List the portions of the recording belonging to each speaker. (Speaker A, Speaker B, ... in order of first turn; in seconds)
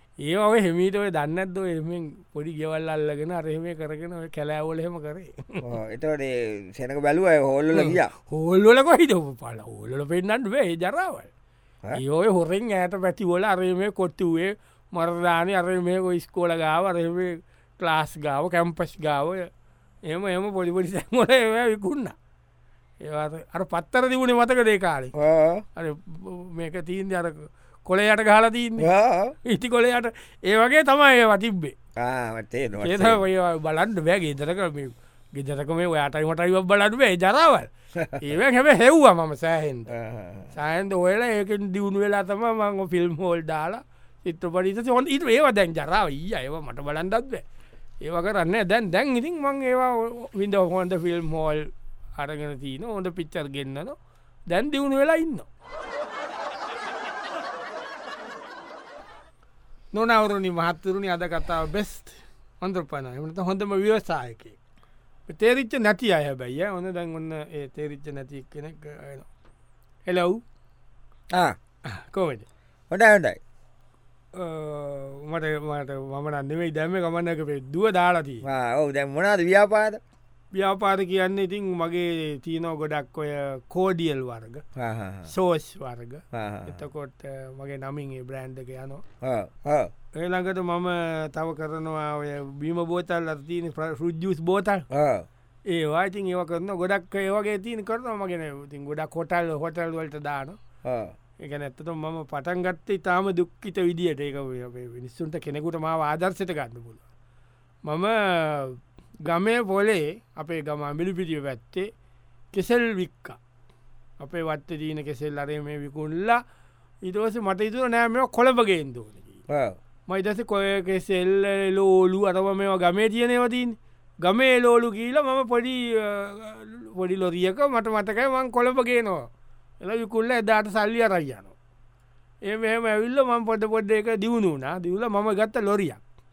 Speaker A: 0.2-5.6, 7.7-11.3, 11.9-19.5, 20.1-22.1, 23.0-25.1, 25.8-28.9, 29.4-31.7, 32.8-39.9, 40.5-47.4, 48.0-54.0, 54.5-55.5, 59.9-64.5, 65.3-69.3, 70.1-70.4, 71.9-72.5, 74.3-78.4, 80.5-84.6, 85.3-89.0, 90.1-94.8, 95.7-100.6, 101.4-107.0, 107.8-111.9, 112.5-113.4, 114.2-116.4, 117.0-119.4, 120.1-129.3, 129.8-131.5, 132.4-136.0
Speaker B: 5.6-8.1, 25.1-25.6, 28.8-29.4, 32.0-33.2, 38.0-38.2, 39.9-40.5, 72.9-73.4, 78.4-80.0, 84.8-85.3, 86.3-86.8, 89.2-89.9, 94.9-95.3, 100.8-101.1, 119.5-119.8